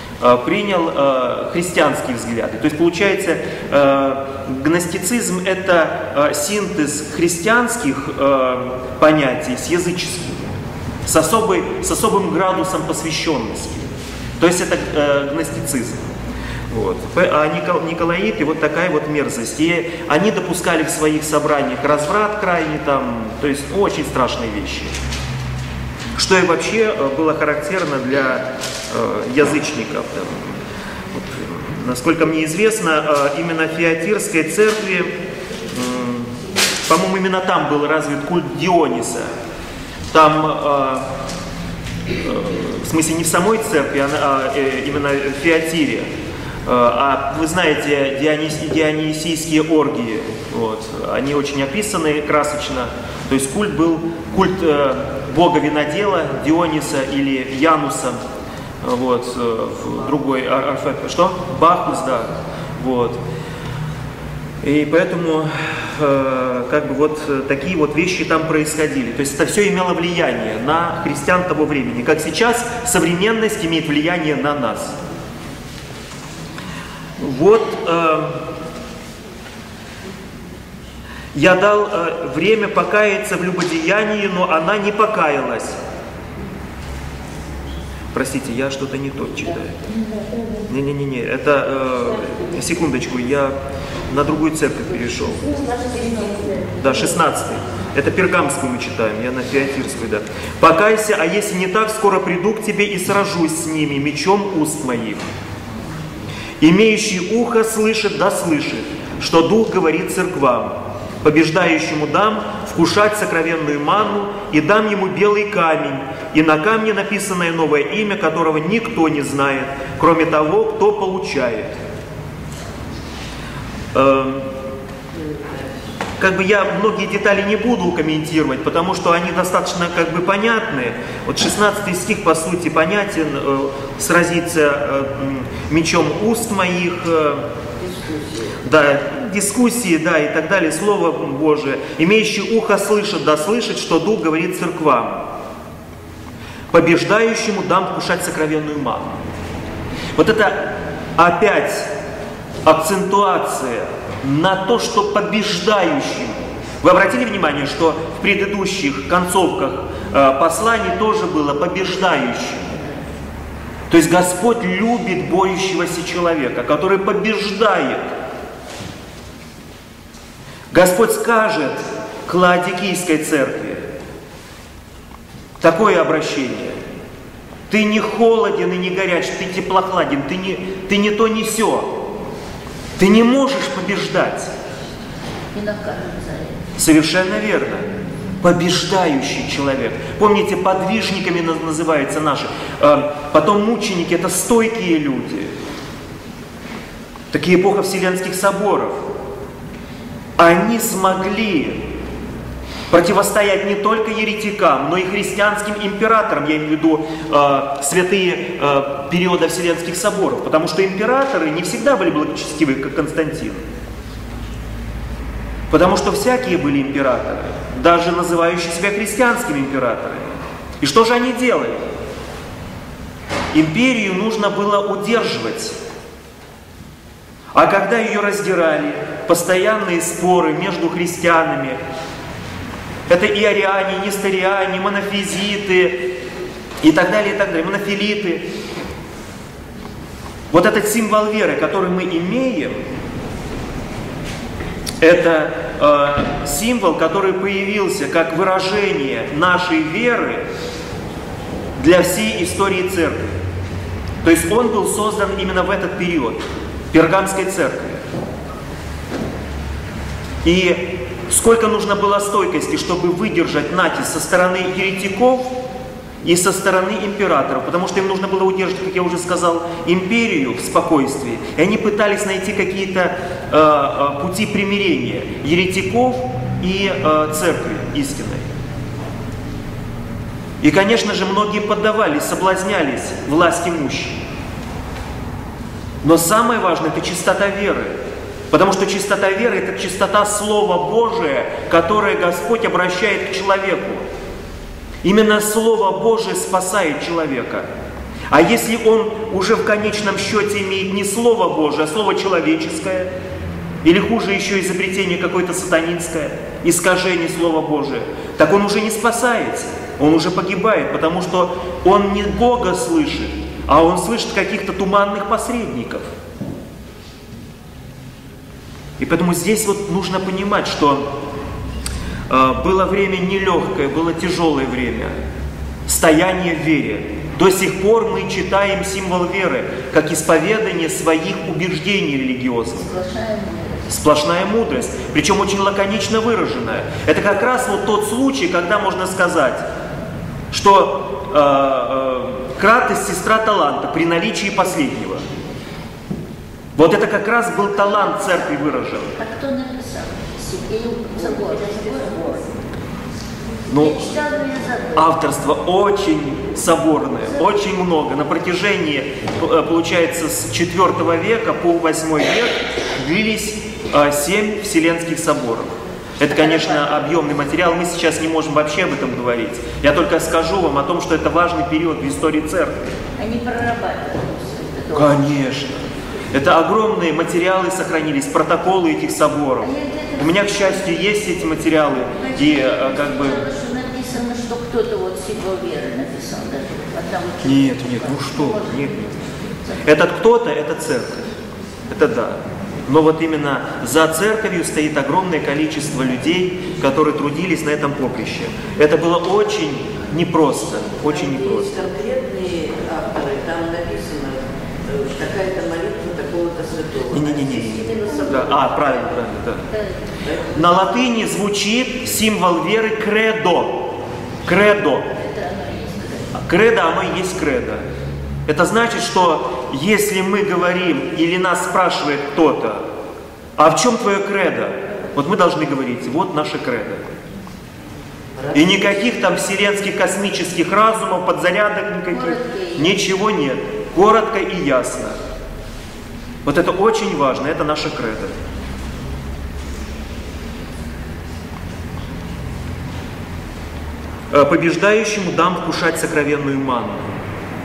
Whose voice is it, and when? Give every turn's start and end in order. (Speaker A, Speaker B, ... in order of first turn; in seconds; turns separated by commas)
Speaker A: 0.2-10.5, Speaker A: 11.1-16.1, Speaker A: 16.7-24.9, Speaker A: 26.1-30.6, Speaker A: 31.1-35.1, Speaker A: 35.7-36.3, Speaker A: 36.9-39.3, Speaker A: 40.1-41.1, Speaker A: 42.2-46.1, Speaker A: 46.7-58.2, Speaker A: 58.8-63.2, Speaker A: 64.6-75.0, Speaker A: 77.2-78.4, Speaker A: 81.3-85.8, Speaker A: 88.1-89.8, Speaker A: 90.7-93.6, Speaker A: 94.1-95.5, Speaker B: 95.4-96.9, Speaker A: 96.8-105.3, Speaker A: 106.6-121.8, Speaker A: 123.9-124.5, Speaker C: 125.1-125.7, Speaker A: 126.2-137.5, Speaker C: 137.8-138.5, Speaker A: 138.6-145.3, Speaker A: 146.7-149.2, Speaker A: 150.2-151.9, Speaker A: 152.7-162.8, Speaker A: 163.9-168.1, Speaker A: 170.7-173.8, Speaker A: 175.6-176.8, Speaker A: 177.7-182.0, Speaker A: 183.0-184.5, Speaker B: 185.5-186.6, Speaker A: 186.8-187.9, Speaker A: 188.4-195.5, Speaker A: 197.3-199.1, Speaker A: 200.4-201.9, Speaker A: 202.9-213.6, Speaker A: 215.7-221.8, Speaker A: 223.5-225.8, Speaker A: 227.5-231.8, Speaker A: 233.1-236.1, Speaker A: 236.8-238.5, Speaker A: 240.5-242.8, Speaker A: 245.0-250.4, Speaker A: 251.8-253.4, Speaker A: 254.2-258.0, Speaker A: 260.4-265.6, Speaker A: 266.2-278.5, Speaker A: 280.6-284.2, Speaker A: 286.0-288.0, Speaker A: 288.5-294.1, Speaker A: 295.0-297.7, Speaker A: 298.3-303.1, Speaker A: 303.8-316.1, Speaker A: 319.0-321.1, Speaker A: 322.3-325.1, Speaker A: 325.9-332.9, Speaker B: 332.8-333.9, Speaker A: 333.9-339.7, Speaker A: 340.5-345.2, Speaker A: 346.8-349.2, Speaker B: 349.2-352.5, Speaker A: 353.7-354.0, Speaker B: 353.7-355.1, Speaker A: 354.9-373.0, Speaker B: 373.2-375.2, Speaker A: 374.9-383.5, Speaker B: 379.6-380.9, Speaker B: 382.1-390.0, Speaker A: 387.4-389.1, Speaker A: 389.8-391.3, Speaker A: 391.9-401.9, Speaker C: 400.9-408.3, Speaker A: 407.1-409.7, Speaker B: 407.6-409.1, Speaker B: 409.7-410.0, Speaker C: 410.2-410.6, Speaker A: 410.5-413.9, Speaker A: 414.5-415.1, Speaker B: 415.1-416.3, Speaker A: 416.3-417.8, Speaker A: 418.5-422.9, Speaker A: 423.6-427.0, Speaker C: 428.4-428.8, Speaker A: 428.5-435.2, Speaker B: 432.1-433.0, Speaker A: 436.4-438.3, Speaker A: 444.3-447.1